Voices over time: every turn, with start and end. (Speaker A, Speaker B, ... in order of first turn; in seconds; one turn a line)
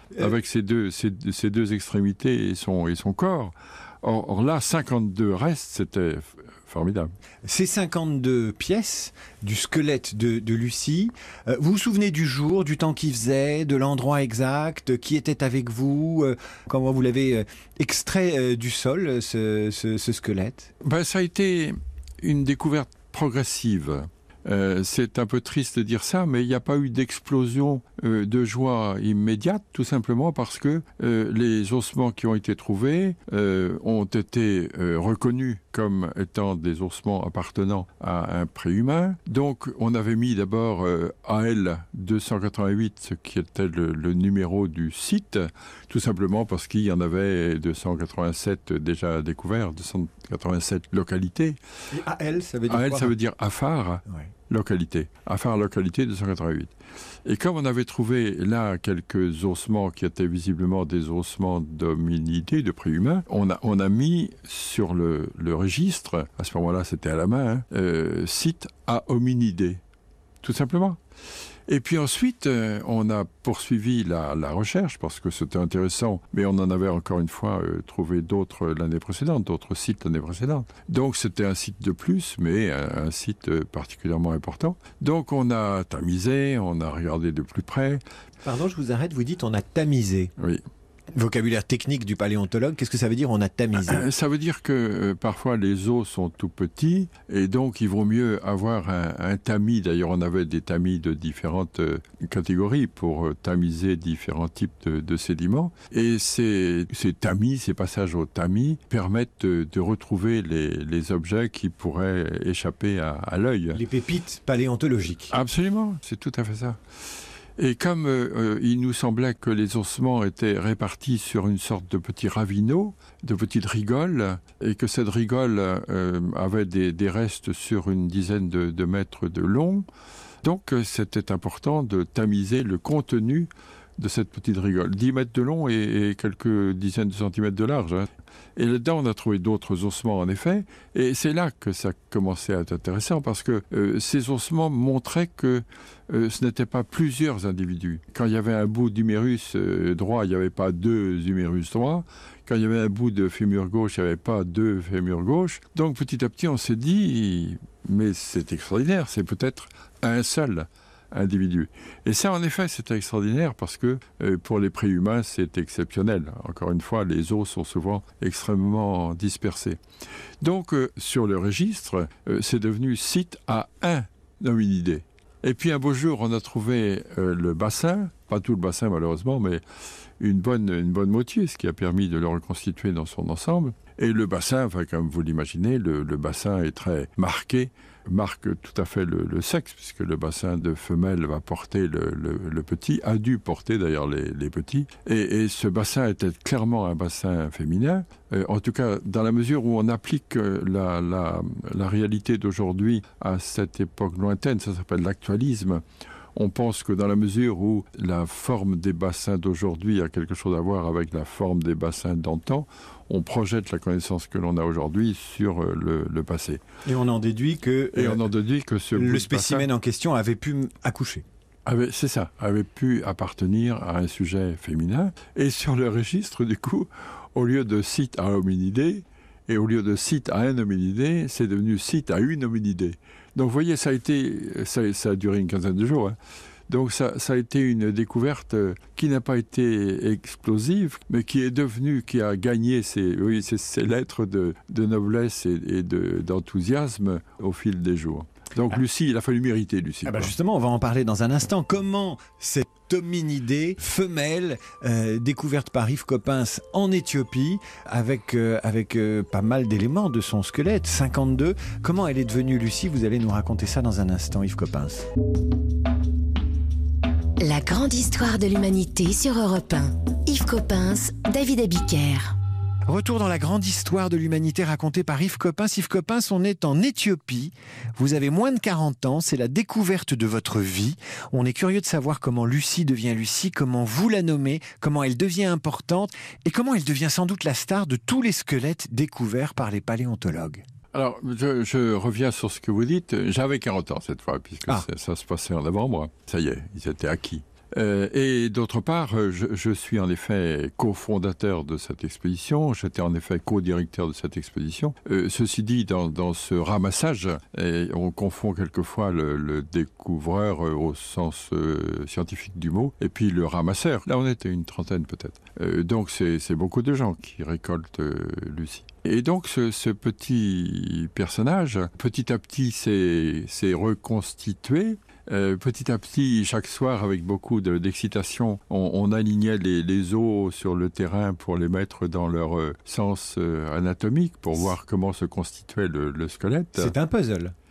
Speaker A: 0.2-7.1
Speaker B: 7.5-20.7
Speaker A: 20.8-51.6
Speaker B: 51.9-53.1
Speaker A: 52.7-56.7
Speaker A: 57.2-69.8
Speaker A: 70.4-71.0
Speaker A: 71.7-88.0
Speaker B: 88.4-90.3
Speaker A: 90.4-90.6
Speaker B: 91.2-94.0
Speaker A: 93.8-113.8
Speaker B: 113.7-115.3
Speaker A: 115.3-116.8
Speaker A: 117.6-129.9
Speaker A: 130.4-169.8
Speaker A: 170.4-179.6
Speaker A: 180.2-216.6
Speaker B: 216.9-218.3
Speaker A: 217.9-219.7
Speaker B: 218.9-221.2
Speaker A: 221.7-236.2
Speaker A: 236.7-250.3
Speaker B: 250.1-265.1
Speaker C: 267.4-272.4
Speaker B: 272.9-290.6
Speaker A: 290.9-336.9
Speaker B: 336.8-337.5